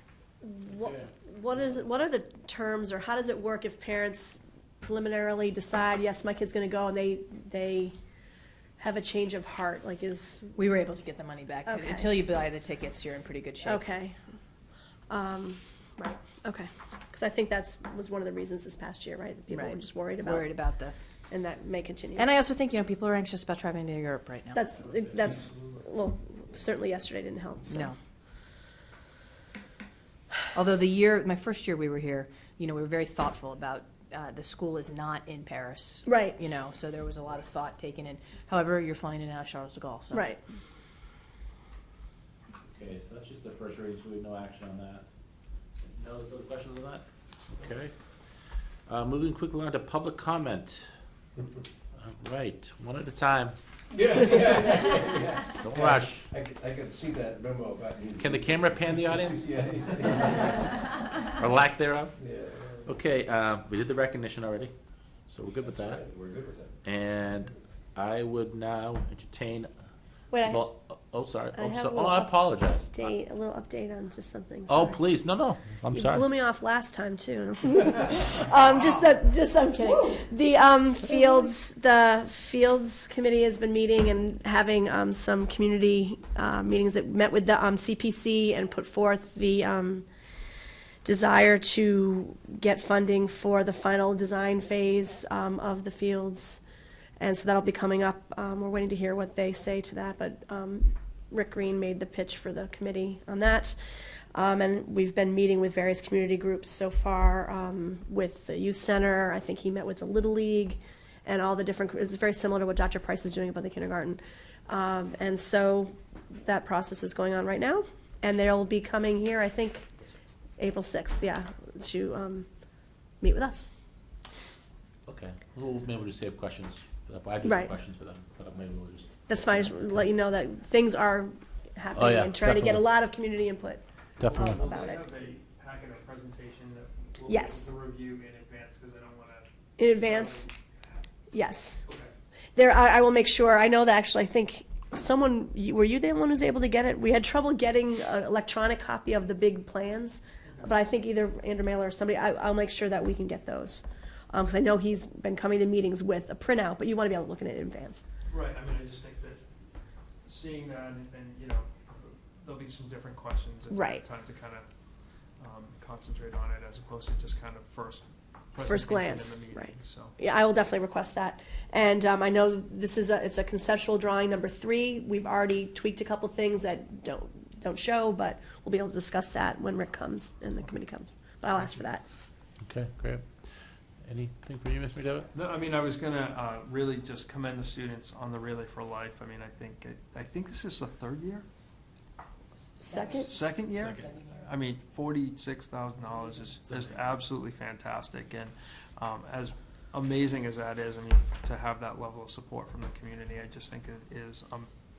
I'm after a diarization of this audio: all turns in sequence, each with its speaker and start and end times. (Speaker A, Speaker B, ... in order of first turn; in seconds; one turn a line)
Speaker A: 0.4-8.0
Speaker A: 8.8-10.6
Speaker B: 10.5-13.8
Speaker A: 11.6-12.2
Speaker A: 13.6-14.2
Speaker A: 15.1-20.5
Speaker B: 19.5-20.9
Speaker A: 21.3-22.2
Speaker B: 22.1-24.6
Speaker A: 24.5-27.9
Speaker B: 27.7-28.0
Speaker B: 30.5-40.3
Speaker A: 36.0-36.4
Speaker A: 40.1-40.4
Speaker C: 42.7-45.0
Speaker C: 45.8-47.9
Speaker C: 48.9-50.9
Speaker C: 52.0-53.5
Speaker D: 53.9-60.8
Speaker C: 55.6-56.3
Speaker C: 58.2-60.4
Speaker C: 61.0-62.2
Speaker D: 62.2-62.9
Speaker C: 62.8-64.7
Speaker C: 65.3-66.0
Speaker D: 65.6-66.7
Speaker C: 66.8-69.7
Speaker A: 70.3-70.6
Speaker C: 70.4-73.0
Speaker A: 71.5-75.0
Speaker C: 74.7-76.3
Speaker A: 75.9-90.1
Speaker A: 91.0-96.6
Speaker A: 97.2-103.8
Speaker A: 104.3-119.9
Speaker A: 120.6-122.5
Speaker A: 123.2-123.7
Speaker C: 125.0-130.0
Speaker A: 127.4-127.7
Speaker A: 129.3-135.0
Speaker C: 131.9-132.8
Speaker C: 134.2-134.6
Speaker E: 134.2-141.0
Speaker A: 137.3-137.7
Speaker A: 139.8-140.5
Speaker A: 141.3-141.8
Speaker E: 141.7-142.1
Speaker A: 142.5-158.0
Speaker E: 150.4-150.7
Speaker E: 158.3-159.4
Speaker E: 160.2-164.7
Speaker A: 163.7-164.0
Speaker E: 165.4-170.1
Speaker A: 168.6-182.0
Speaker C: 182.6-183.5
Speaker C: 184.0-185.3
Speaker E: 185.3-191.4
Speaker B: 192.8-194.5
Speaker A: 192.8-193.3
Speaker E: 193.2-204.7
Speaker C: 196.6-197.2